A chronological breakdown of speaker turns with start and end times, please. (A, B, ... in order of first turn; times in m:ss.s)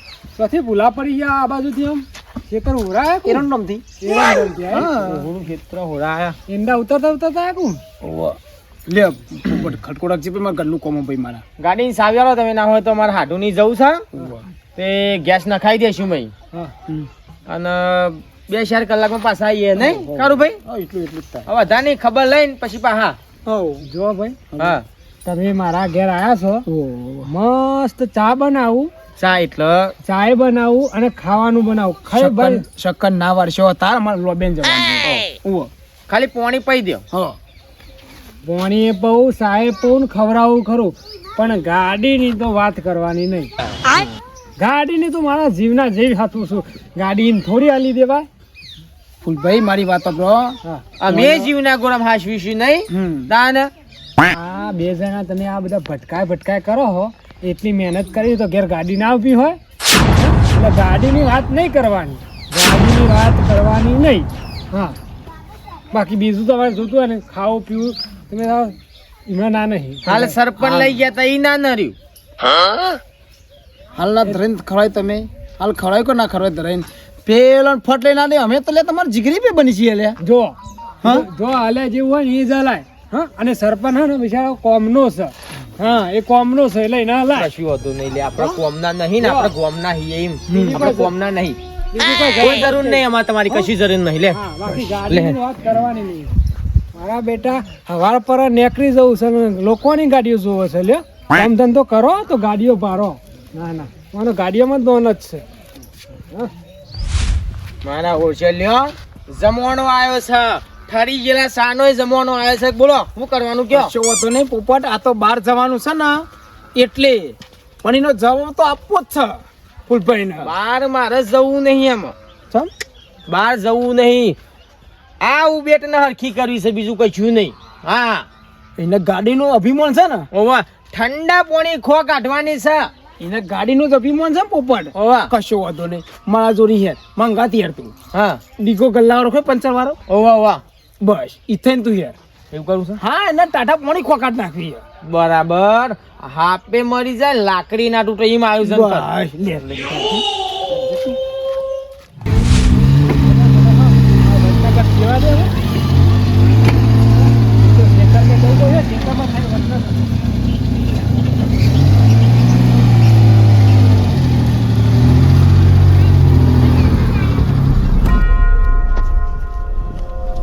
0:00.4-0:03.5 A
0:03.3-0:03.8 B
0:04.0-0:04.9 A
0:04.7-0:05.3 B
0:04.7-0:06.4 C
0:06.5-0:07.8 A
0:08.0-0:11.4 B
0:11.6-0:14.0 C
0:14.2-0:14.4 B
0:14.8-0:16.3 C
0:17.5-0:20.6 C
0:19.8-0:21.5 B
0:21.5-0:23.2 C
0:23.5-0:23.9 B
0:23.8-0:24.4 A
0:24.5-0:24.8 B
0:24.6-0:24.8 C
0:25.2-0:26.7 A
0:26.7-0:27.3 B
0:27.2-0:28.9 A
0:29.2-0:29.9 C
0:30.0-0:32.6 A
0:32.1-0:35.7 B
0:36.1-0:37.0 C
0:38.4-0:43.5 A
0:44.6-0:48.3 A
0:49.2-0:51.5 B
0:51.0-0:53.7 C
0:52.9-0:53.3 B
0:54.3-0:59.6 A
1:00.2-1:05.0 A
1:05.9-1:08.8 A
1:09.3-1:10.4 A
1:10.1-1:12.9 C
1:10.6-1:10.9 B
1:14.0-1:20.2 B
1:20.2-1:27.5 A
1:27.3-1:31.6 C
1:29.2-1:29.5 A
1:30.5-1:30.8 B
1:30.5-1:31.1 A
1:31.9-1:33.7 A
1:32.4-1:34.4 C
1:34.3-1:36.4 A
1:35.1-1:35.4 C
1:37.0-1:45.4 A
1:47.8-1:53.9 C
1:53.7-2:00.5 B
2:00.4-2:02.2 C
2:03.3-2:04.4 C
2:05.2-2:08.3 C
2:08.8-2:10.3 B
2:10.3-2:12.9 C
2:13.2-2:17.9 B
2:14.9-2:15.3 C
2:18.1-2:18.4 C
2:18.6-2:20.0 B
2:20.1-2:20.6 C
2:21.0-2:22.2 B
2:22.5-2:23.0 C
2:23.0-2:24.8 B
2:25.0-2:29.1 C
2:28.6-2:30.2 B
2:30.7-2:31.2 A
2:33.1-2:35.5 A
2:37.4-2:40.1 A